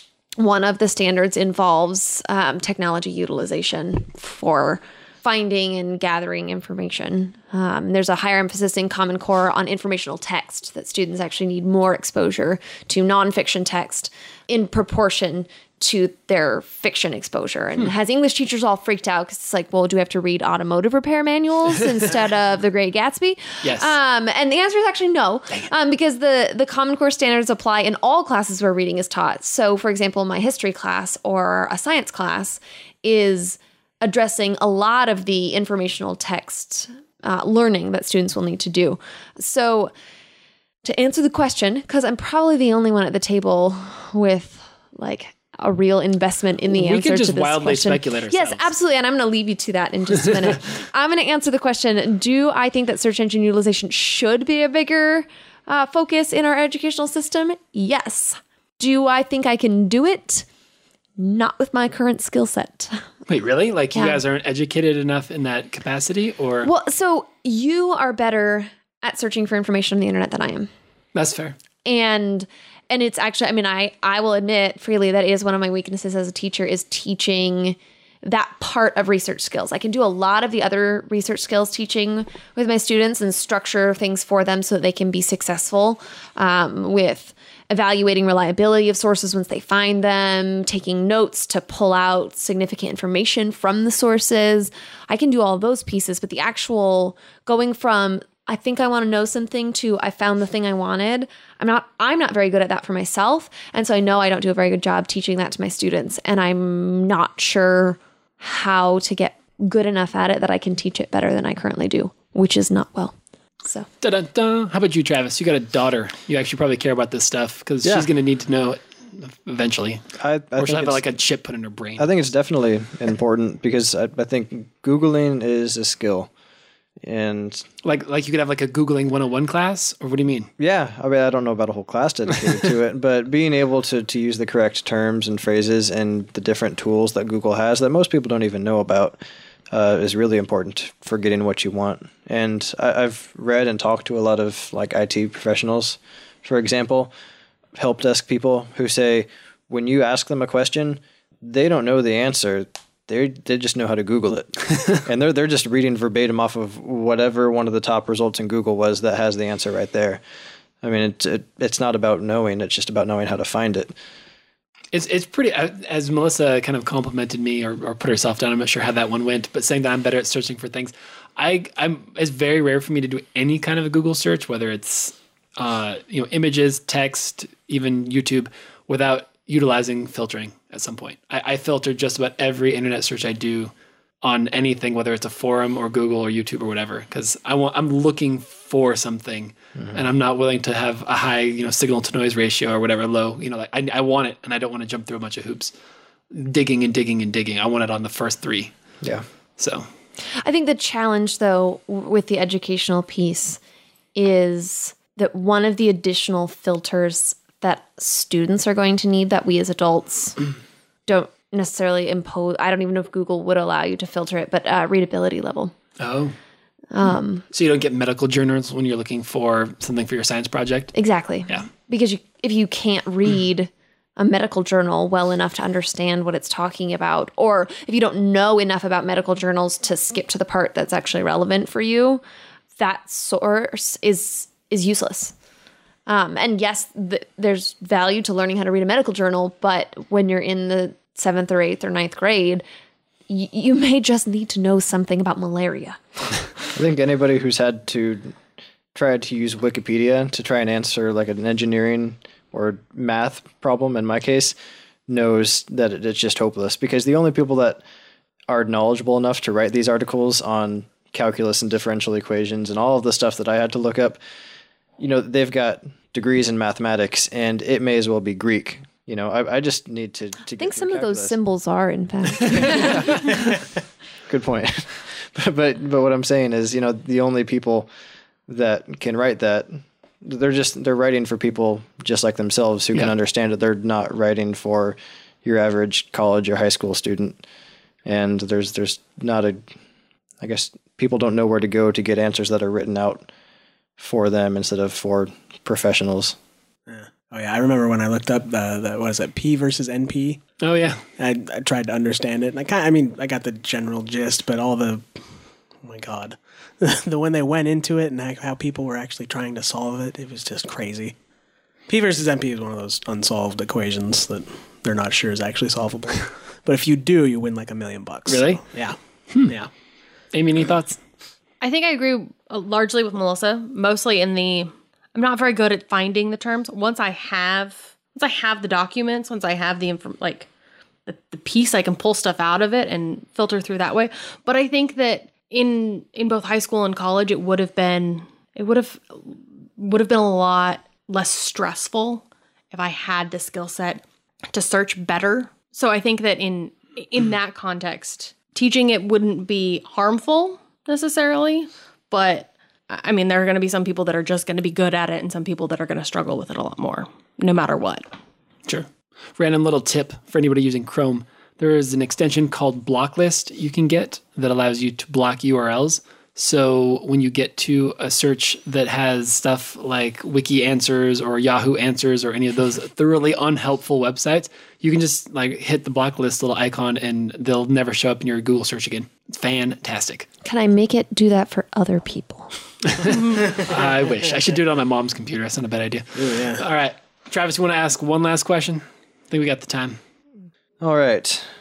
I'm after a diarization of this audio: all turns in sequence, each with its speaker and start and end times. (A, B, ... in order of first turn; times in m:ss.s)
0:00.4-0:39.9 A
0:23.6-0:23.9 B
0:40.8-1:00.4 A
0:46.7-0:48.7 B
1:01.2-1:03.0 A
1:03.3-1:06.7 B
1:03.9-1:04.2 A
1:06.6-1:10.7 A
1:11.1-1:11.6 B
1:11.8-1:53.8 A
1:54.0-2:00.0 B
2:00.2-2:01.0 C
2:00.6-2:02.1 B
2:02.0-2:06.3 C
2:07.0-2:07.6 C
2:07.8-2:10.5 B
2:10.6-2:19.2 C
2:19.7-2:27.1 C
2:27.8-2:40.2 C
2:40.8-2:43.9 C
2:44.9-3:15.7 B
3:16.3-3:18.7 B
3:19.6-3:19.8 B
3:20.4-3:23.6 A
3:24.1-3:30.4 A
3:31.1-3:35.7 A
3:36.0-3:36.3 B
3:36.9-3:37.4 A
3:37.5-3:40.9 B
3:40.9-3:52.2 A
3:52.7-3:55.3 A
3:56.1-4:02.6 A
4:03.3-4:06.0 A
4:06.7-4:08.4 C
4:08.9-4:14.5 C
4:15.1-4:17.8 C
4:18.5-4:24.2 C
4:25.0-4:31.4 C
4:30.6-4:33.2 A
4:32.5-4:33.5 C
4:34.3-4:37.9 C
4:38.5-4:47.4 C
4:48.0-4:49.6 C
4:50.4-4:53.3 C
4:54.0-4:56.4 C
4:56.9-5:00.4 D
5:00.6-5:01.0 B
5:01.2-5:05.2 D
5:05.8-5:11.1 D
5:11.9-5:19.7 D
5:18.3-5:18.6 B
5:20.3-5:21.0 B
5:21.6-5:30.5 E
5:31.0-5:58.1 E
5:58.7-6:20.3 B
6:20.4-6:22.5 A
6:22.9-6:30.0 B
6:26.1-6:26.6 D
6:30.8-6:31.5 C